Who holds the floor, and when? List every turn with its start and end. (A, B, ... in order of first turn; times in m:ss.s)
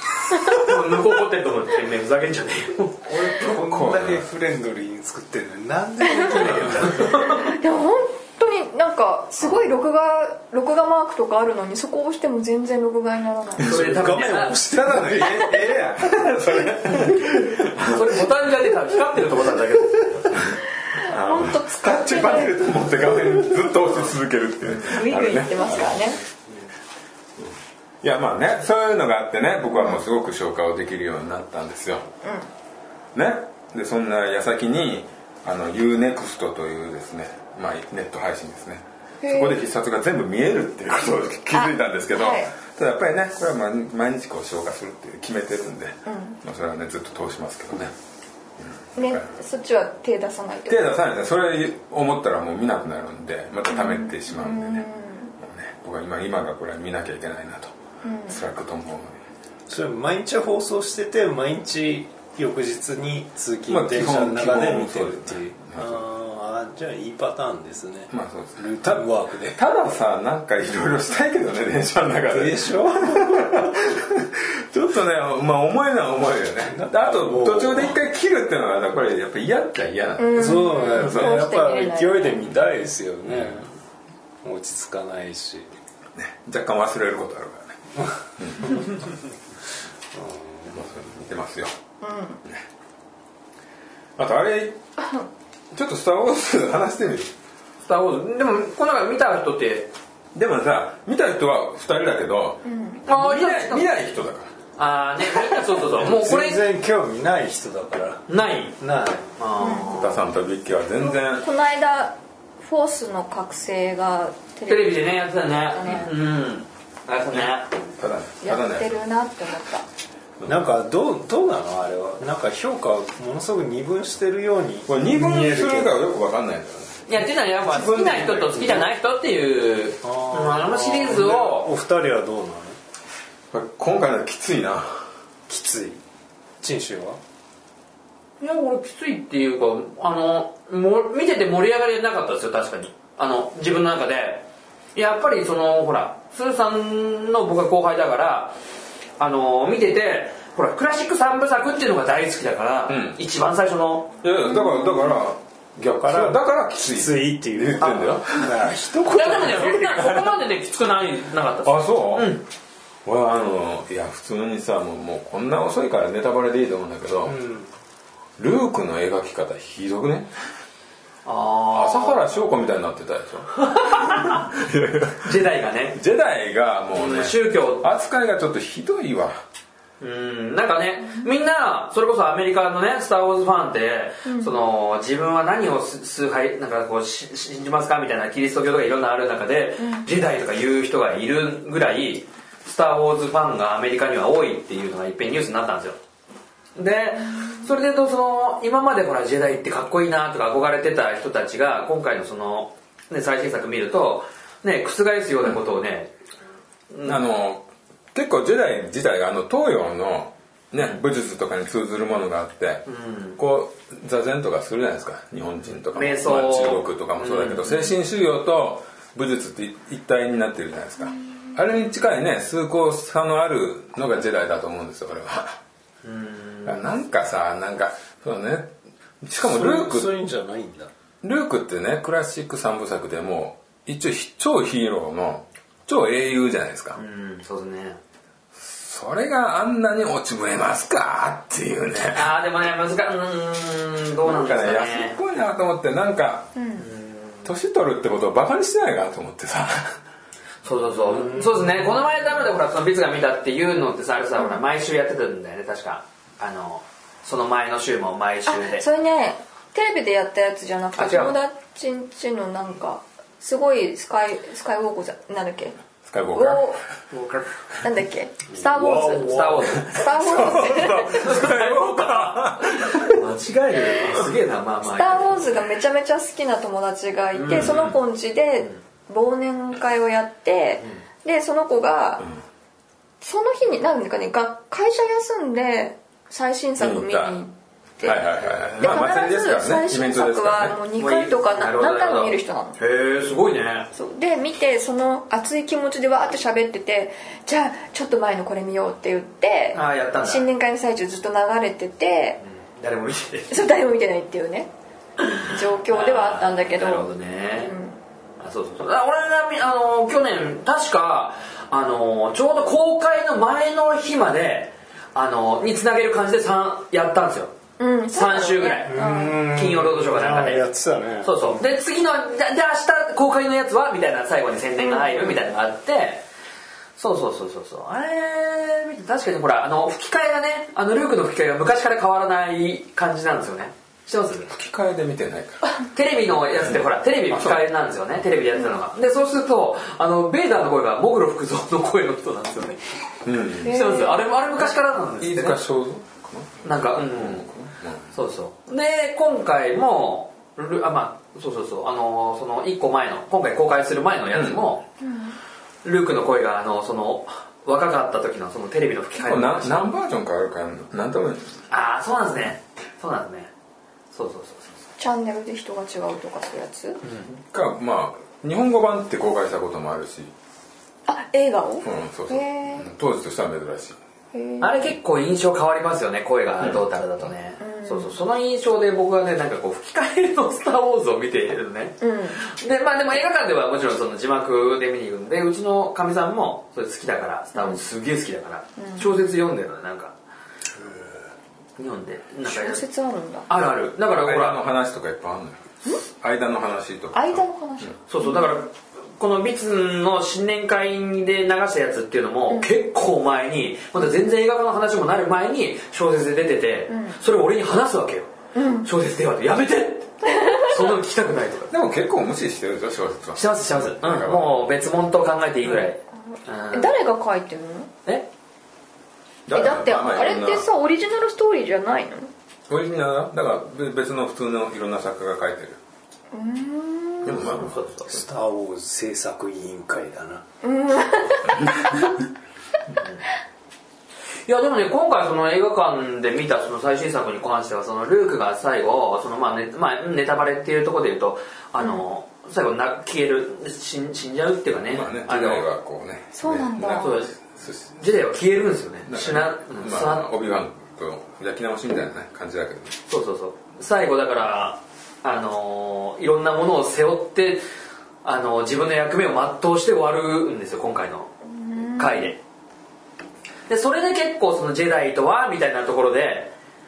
0:00.3-0:00.7 A
0:00.4-0:03.3 B
0:03.1-0:04.3 C
0:03.4-0:07.5 D
0:06.2-0:06.5 A
0:07.1-0:13.7 A
0:07.1-0:07.4 B
0:13.6-0:14.6 B
0:13.6-0:14.0 C
0:13.6-0:15.6 D
0:14.7-0:18.2 C
0:17.8-0:20.4 B
0:20.3-0:26.2 C
0:20.9-0:22.8 A
0:24.7-0:26.2 A
0:27.4-0:32.1 C
0:29.7-0:30.0 A
0:32.2-0:32.5 A
0:33.2-0:47.9 C
0:39.2-0:39.6 A
0:41.5-0:42.5 A
0:46.1-0:46.4 A
0:48.6-0:49.2 C
0:49.0-0:50.8 A
0:50.7-0:57.7 C
0:53.7-0:55.3 A
0:58.0-0:58.4 A
0:58.3-0:59.2 C
0:59.7-1:09.6 D
1:03.7-1:06.0 C
1:08.1-1:21.4 C
1:12.3-1:13.4 D
1:16.7-1:18.0 D
1:20.2-1:22.5 A
1:20.4-1:23.7 D
1:23.3-1:23.6 C
1:24.4-1:25.7 D
1:26.2-1:27.8 C
1:28.4-1:28.9 C
1:30.2-1:30.8 D
1:30.7-1:31.7 C
1:32.0-1:32.4 A
1:34.2-1:34.8 C
1:35.7-1:37.3 C
1:37.8-1:39.9 B
1:40.3-1:44.5 C
1:42.6-1:43.0 A
1:43.1-1:43.9 B
1:44.8-1:46.6 B
1:46.0-1:48.3 D
1:48.3-1:48.8 B
1:48.8-1:49.3 D
1:49.4-1:50.2 B
1:49.6-1:50.1 A
1:49.9-1:51.4 C
1:51.0-1:56.1 A
1:54.7-1:57.7 B
1:55.8-1:56.1 C
1:57.3-1:59.0 C
1:58.4-1:59.8 A
2:00.5-2:05.9 D
2:04.9-2:08.9 C
2:07.1-2:11.7 B
2:10.0-2:12.8 D
2:13.5-2:15.1 C
2:15.5-2:16.0 D
2:16.6-2:17.2 D
2:18.4-2:28.6 B
2:29.2-2:34.2 B
2:32.9-2:33.2 C
2:34.2-2:38.7 C
2:34.4-2:35.2 A
2:36.0-2:40.2 D
2:39.1-2:42.4 B
2:41.6-2:42.3 C
2:43.1-2:47.4 C
2:47.2-2:47.7 D
2:48.4-2:50.3 C
2:51.2-2:52.2 B
2:51.7-2:55.4 C
2:53.6-2:54.4 B
2:55.2-2:56.0 B
2:55.9-2:59.4 C
2:56.9-2:57.9 B
3:00.0-3:16.0 B
3:04.3-3:04.5 A
3:09.8-3:10.0 A
3:16.8-3:26.1 B
3:26.9-3:27.2 B
3:27.0-3:32.8 C
3:32.9-3:33.4 B
3:33.4-3:45.6 C
3:35.9-3:37.8 B
3:46.0-3:46.9 B
3:46.7-3:50.1 C
3:49.4-3:50.9 D
3:51.2-3:57.0 C
3:57.0-3:58.0 B
3:58.6-4:02.3 C
4:02.1-4:05.2 B
4:04.2-4:06.5 C
4:06.6-4:06.8 A
4:06.8-4:07.5 B
4:07.4-4:10.0 C
4:10.6-4:18.8 B
4:11.1-4:11.8 D
4:18.5-4:25.8 A
4:21.0-4:21.4 B
4:26.1-4:26.8 C
4:26.3-4:26.8 A
4:27.1-4:27.5 B
4:27.8-4:31.2 A
4:28.7-4:29.6 D
4:28.9-4:35.5 B
4:29.8-4:33.2 C
4:34.9-4:42.3 A
4:37.3-4:38.0 B
4:43.2-4:48.2 A
4:46.8-4:47.4 C
4:48.0-4:50.8 C
4:48.8-4:52.8 A
4:51.0-4:53.9 B
4:53.9-5:02.4 A
4:59.7-5:00.5 B
5:02.6-5:03.6 B
5:03.5-5:04.7 A
5:05.2-5:07.8 B
5:05.4-5:08.0 A
5:08.4-5:17.6 B
5:17.8-5:19.5 A
5:18.1-5:20.7 B
5:18.9-5:21.6 D
5:21.2-5:26.2 B
5:24.8-5:25.4 A
5:27.0-5:34.5 B
5:34.5-5:35.7 C
5:35.8-5:42.9 B
5:37.3-5:37.6 C
5:43.2-5:43.9 C
5:43.6-5:44.3 A
5:43.6-5:45.6 B
5:45.2-5:48.1 C
5:46.6-5:47.5 B
5:48.1-5:54.9 B
5:54.3-5:54.6 C
5:55.0-5:55.4 A
5:55.8-5:59.9 B
5:59.2-6:01.6 C
6:01.7-6:03.5 B
6:04.1-6:04.8 B
6:05.0-6:07.0 A
6:07.3-6:10.3 C
6:11.1-6:12.9 A
6:11.8-6:14.0 C
6:14.3-6:14.9 A
6:14.6-6:30.2 B
6:17.6-6:18.1 A
6:22.0-6:22.4 A
6:27.6-6:27.8 A
6:28.8-6:29.1 A
6:31.8-6:32.8 B
6:32.4-6:33.5 A
6:33.5-6:34.6 B
6:34.2-6:37.9 C
6:37.1-6:38.6 A
6:38.1-6:48.3 B
6:46.9-6:47.2 A
6:48.6-6:48.9 A
6:48.8-6:51.7 B
6:50.4-6:50.7 A
6:51.7-6:54.7 C
6:53.4-6:56.9 B
6:56.7-6:57.9 A
6:59.5-7:00.7 C
6:59.5-7:02.3 A
7:02.7-7:05.8 C
7:06.3-7:07.6 A
7:07.2-7:07.9 C
7:07.4-7:08.1 B
7:08.1-7:10.4 D
7:10.6-7:12.0 A
7:14.5-7:25.6 B
7:24.9-7:28.0 C
7:26.4-7:27.3 A
7:27.0-7:27.4 B
7:28.0-7:30.3 B
7:29.1-7:33.0 C
7:33.1-7:37.6 B
7:38.2-7:42.4 B
7:41.5-7:42.3 A
7:43.7-7:46.5 B